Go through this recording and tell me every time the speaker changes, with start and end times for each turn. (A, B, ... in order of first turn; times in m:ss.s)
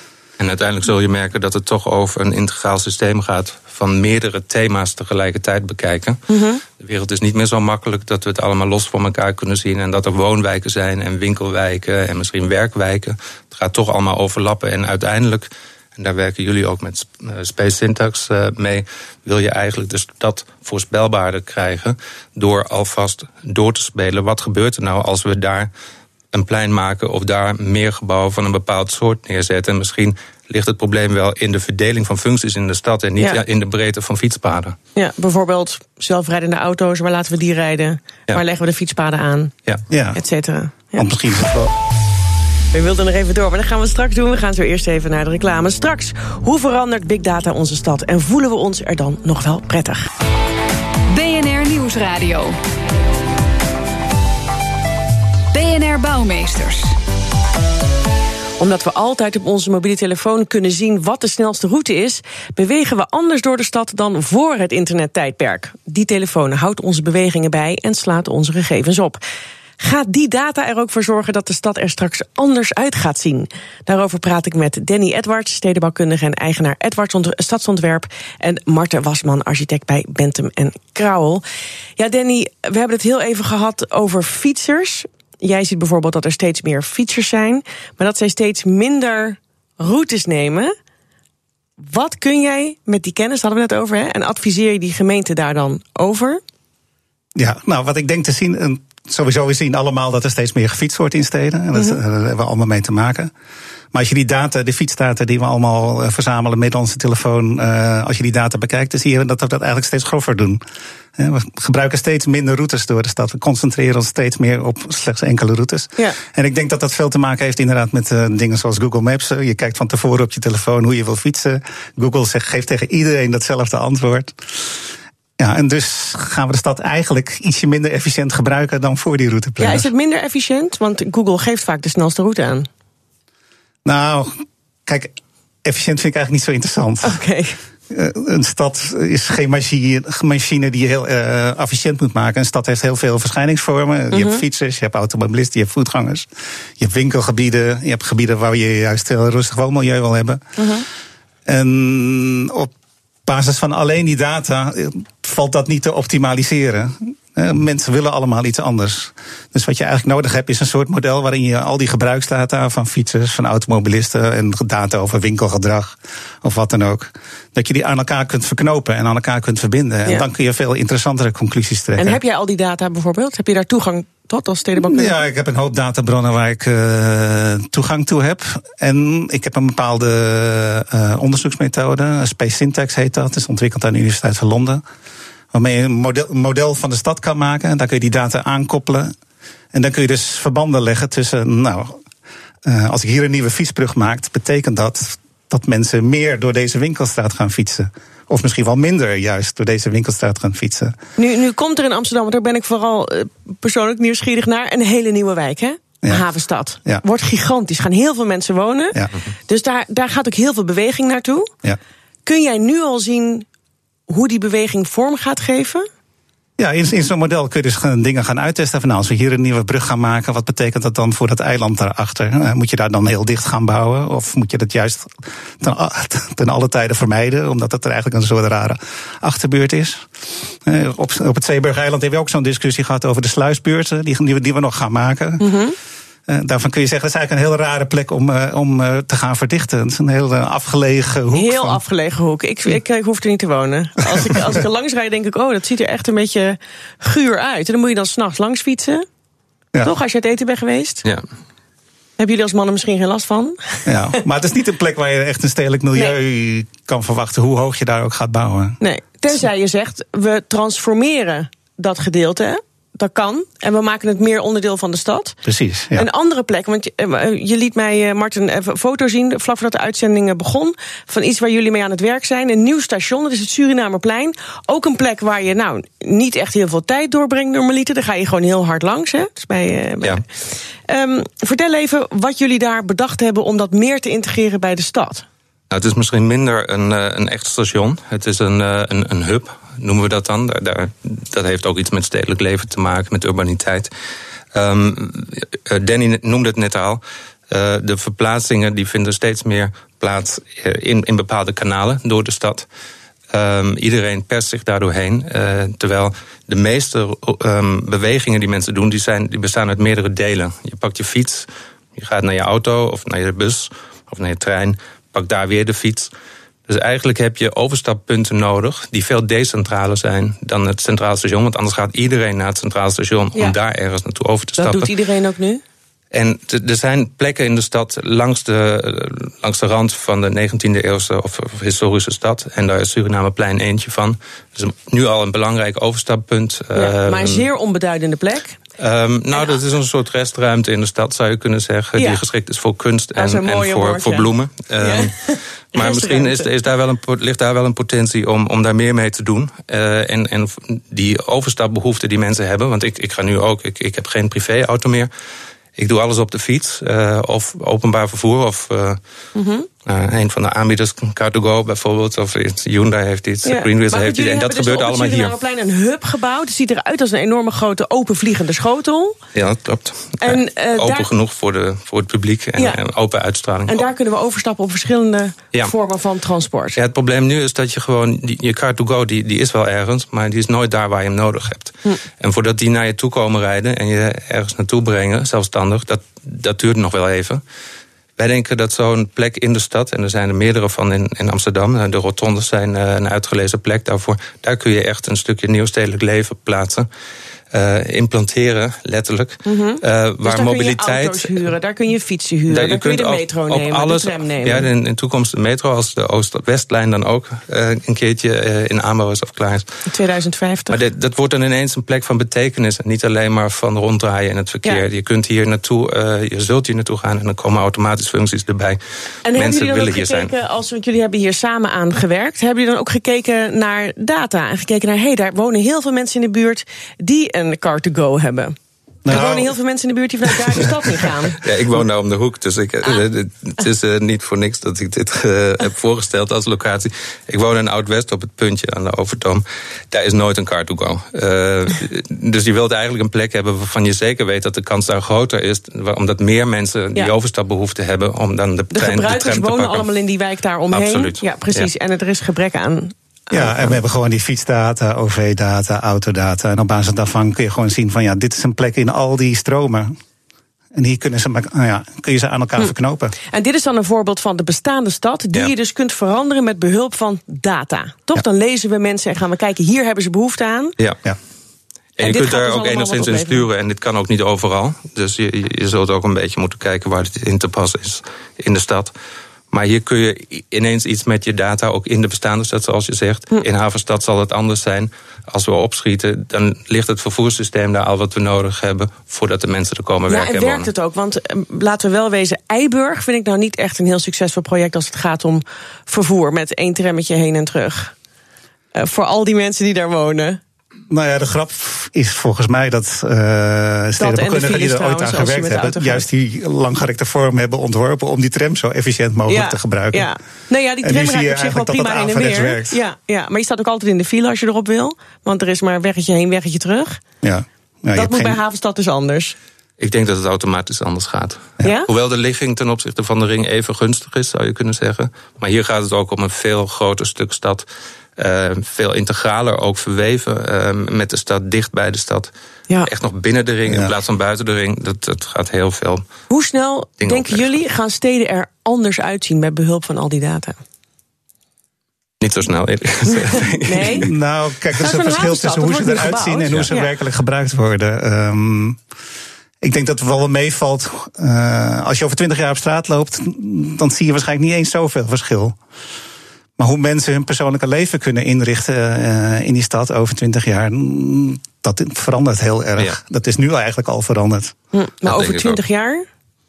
0:00.4-0:06.2 A
0:06.3-0:06.6 B
0:06.8-0:25.7 A
0:26.3-0:34.8 A
0:35.0-0:39.5 B
0:39.9-0:40.2 C
0:40.2-0:41.1 B
0:41.0-0:41.7 C
0:42.7-0:50.1 B
0:51.1-0:52.6 D
0:55.5-0:57.0 D
0:58.6-1:09.2 B
1:09.8-1:21.4 B
1:22.0-1:30.7 B
1:31.8-1:36.4 B
1:37.4-1:43.3 C
1:43.9-1:50.6 C
1:51.2-2:04.7 C
2:05.4-2:09.9 C
2:09.6-2:12.7 B
2:13.8-2:17.2 C
2:17.0-2:17.6 B
2:17.9-2:30.4 C
2:24.1-2:24.4 B
2:30.6-2:30.9 B
2:31.5-2:32.7 C
2:33.3-2:52.2 C
2:52.0-2:55.2 B
2:54.8-3:04.8 C
3:05.5-3:09.1 C
3:09.7-3:12.0 C
3:12.6-3:21.0 C
3:21.2-3:31.5 B
3:32.3-3:33.5 B
3:34.1-3:35.9 B
3:36.6-3:50.1 C
3:50.6-3:55.5 C
3:55.4-3:55.8 B
3:56.3-4:01.8 C
4:01.3-4:09.0 B
4:09.8-4:11.0 B
4:12.2-4:13.6 B
4:13.9-4:18.8 C
4:18.8-4:25.4 B
4:25.4-4:26.1 C
4:26.0-4:40.2 B
4:40.9-4:45.2 B
4:45.7-4:53.9 A
4:54.5-5:02.7 A
5:03.3-5:16.1 A
5:16.7-5:24.9 A
5:24.6-5:25.6 B
5:26.1-5:37.5 A
5:36.8-5:38.6 B
5:38.8-5:45.2 A
5:39.3-5:39.6 B
5:42.0-5:42.2 B
5:43.2-5:44.3 B
5:44.8-5:46.5 B
5:45.7-5:55.1 A
5:55.8-5:59.0 A
5:59.4-5:59.7 B
5:59.8-6:05.4 A
6:03.4-6:09.2 B
6:09.3-6:13.9 A
6:10.2-6:11.1 B
6:13.7-6:16.8 B
6:16.8-6:27.4 A
6:28.2-6:36.9 A
6:37.5-6:41.5 A
6:39.4-6:44.7 B
6:42.5-6:49.7 A
6:49.9-6:50.8 B
6:50.7-6:58.8 A
6:59.2-7:08.6 B
6:59.3-7:00.3 A
7:09.0-7:09.5 C
7:09.1-7:11.4 B
7:11.4-7:29.9 A
7:28.7-7:33.8 B
7:30.7-7:31.7 A
7:33.3-7:40.0 C
7:40.7-7:43.1 C
7:43.3-7:50.8 B
7:52.0-7:58.9 A
7:52.0-7:53.4 B
7:59.5-8:10.7 A
8:10.1-8:17.9 B
8:18.8-8:20.4 B
8:20.9-8:30.1 C
8:24.0-8:26.0 B
8:29.3-8:37.0 B
8:30.8-8:32.8 C
8:37.2-8:38.4 C
8:38.0-8:39.4 B
8:39.8-8:47.7 A
8:41.6-8:41.9 B
8:48.2-8:52.3 A
8:52.8-8:56.1 A
8:53.7-8:53.9 C
8:56.3-9:00.6 B
8:57.0-8:57.6 A
9:02.2-9:04.1 A
9:03.6-9:04.1 B
9:04.0-9:08.8 C
9:04.8-9:06.9 B
9:09.6-9:15.6 C
9:16.6-9:24.5 C
9:24.7-9:26.1 B
9:25.0-9:25.6 A